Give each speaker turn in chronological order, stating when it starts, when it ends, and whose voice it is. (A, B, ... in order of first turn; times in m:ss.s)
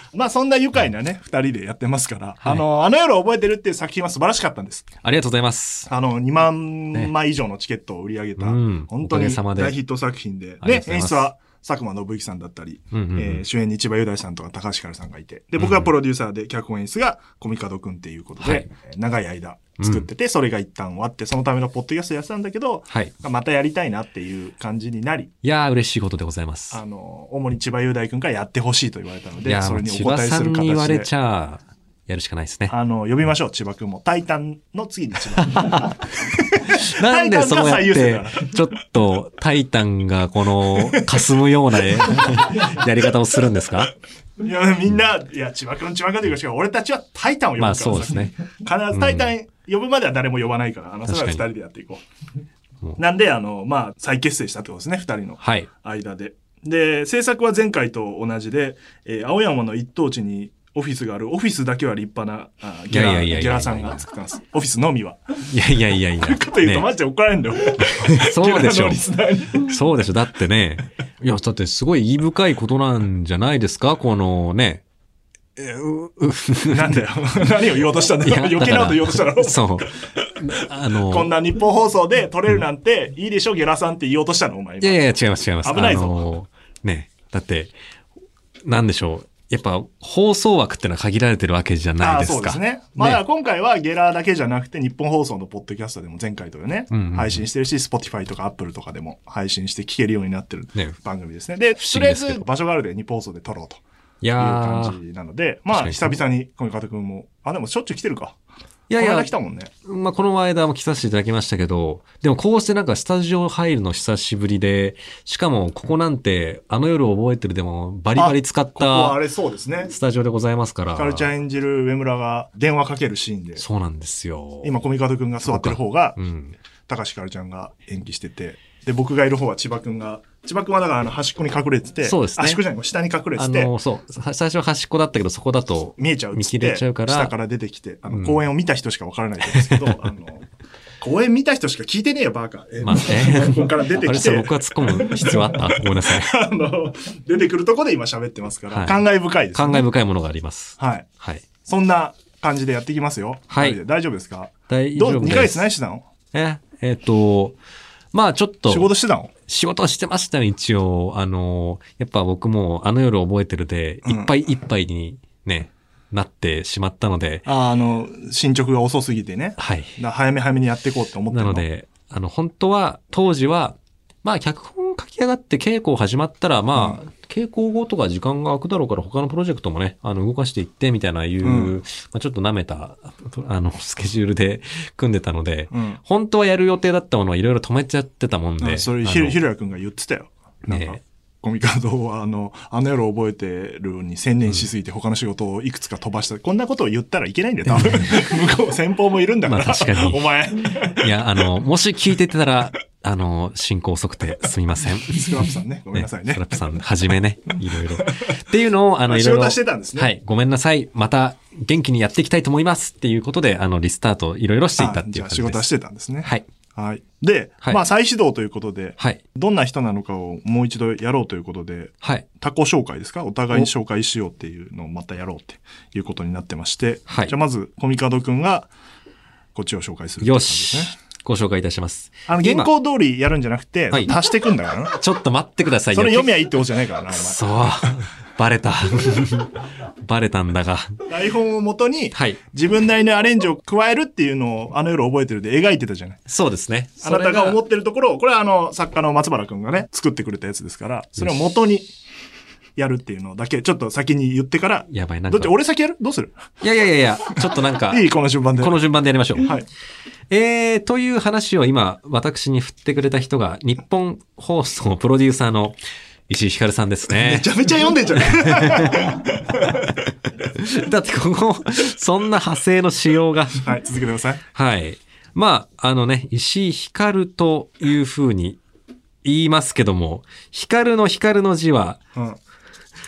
0:00.1-0:04.9 A
0:05.0-0:05.9 B
0:05.9-0:25.3 A
0:08.4-0:09.8 B
0:10.6-0:11.3 B
0:12.9-0:13.4 B
0:15.6-0:15.9 B
0:18.4-0:18.7 B
0:19.8-0:20.1 B
0:25.4-0:26.8 B
0:26.7-0:31.1 A
0:29.4-0:32.7 B
0:32.7-0:38.5 A
0:35.4-0:43.9 B
0:40.7-0:41.2 A
0:41.8-0:42.8 A
0:44.4-0:52.0 A
0:47.6-0:48.3 B
0:48.9-0:49.3 B
0:51.1-0:51.4 B
0:53.0-1:05.2 A
0:55.4-0:55.7 B
1:02.9-1:04.0 B
1:05.5-1:06.9 B
1:06.2-1:09.7 A
1:07.9-1:09.0 B
1:09.5-1:14.8 B
1:15.6-1:17.0 B
1:16.7-1:25.0 A
1:18.2-1:21.3 B
1:24.8-1:27.7 B
1:25.6-1:26.3 A
1:28.6-1:33.2 B
1:32.0-1:43.8 A
1:36.9-1:37.4 B
1:41.8-1:42.5 B
1:44.2-1:45.0 B
1:44.4-1:48.4 A
1:45.7-1:46.2 B
1:48.9-1:49.3 B
1:49.0-1:49.7 A
1:49.9-1:59.2 B
1:58.2-1:59.9 A
1:59.9-2:01.3 B
2:01.0-2:03.6 A
2:03.6-2:04.7 B
2:04.6-2:06.2 A
2:05.5-2:06.6 B
2:06.9-2:13.7 A
2:12.0-2:12.6 B
2:13.4-2:17.3 B
2:16.0-2:20.5 A
2:18.1-2:18.4 B
2:19.6-2:20.0 B
2:21.0-2:29.9 A
2:22.8-2:26.4 B
2:28.7-2:29.0 B
2:29.5-2:31.4 B
2:30.8-2:31.1 A
2:31.6-2:36.0 A
2:33.5-2:33.8 B
2:34.7-2:35.7 B
2:36.3-2:37.6 B
2:38.1-2:38.9 B
2:38.7-2:39.3 A
2:39.5-2:47.5 B
2:44.0-2:44.3 A
2:47.5-2:51.6 A
2:49.6-2:50.0 B
2:51.3-3:09.4 B
2:56.8-2:57.0 A
3:01.4-3:01.8 A
3:05.7-3:06.0 A
3:08.6-3:21.4 A
3:10.7-3:11.0 B
3:17.7-3:18.4 B
3:19.5-3:35.6 B
3:25.0-3:26.7 A
3:27.9-3:28.4 A
3:29.1-3:30.1 A
3:34.8-3:48.7 A
3:47.1-3:47.3 B
3:49.5-3:50.9 A
3:50.2-3:52.7 B
3:52.3-3:55.0 A
3:54.9-3:56.3 B
3:55.9-3:57.9 A
3:57.1-4:01.0 B
4:01.1-4:06.2 A
4:02.1-4:02.4 B
4:06.3-4:07.6 B
4:07.0-4:11.9 A
4:12.8-4:16.4 A
4:14.9-4:15.5 B
4:16.6-4:19.5 B
4:17.4-4:18.8 A
4:19.4-4:19.7 A
4:20.3-4:27.5 B
4:27.1-4:30.1 A
4:28.2-4:33.6 B
4:33.6-4:34.4 A
4:34.5-4:38.6 B
4:39.2-4:42.0 B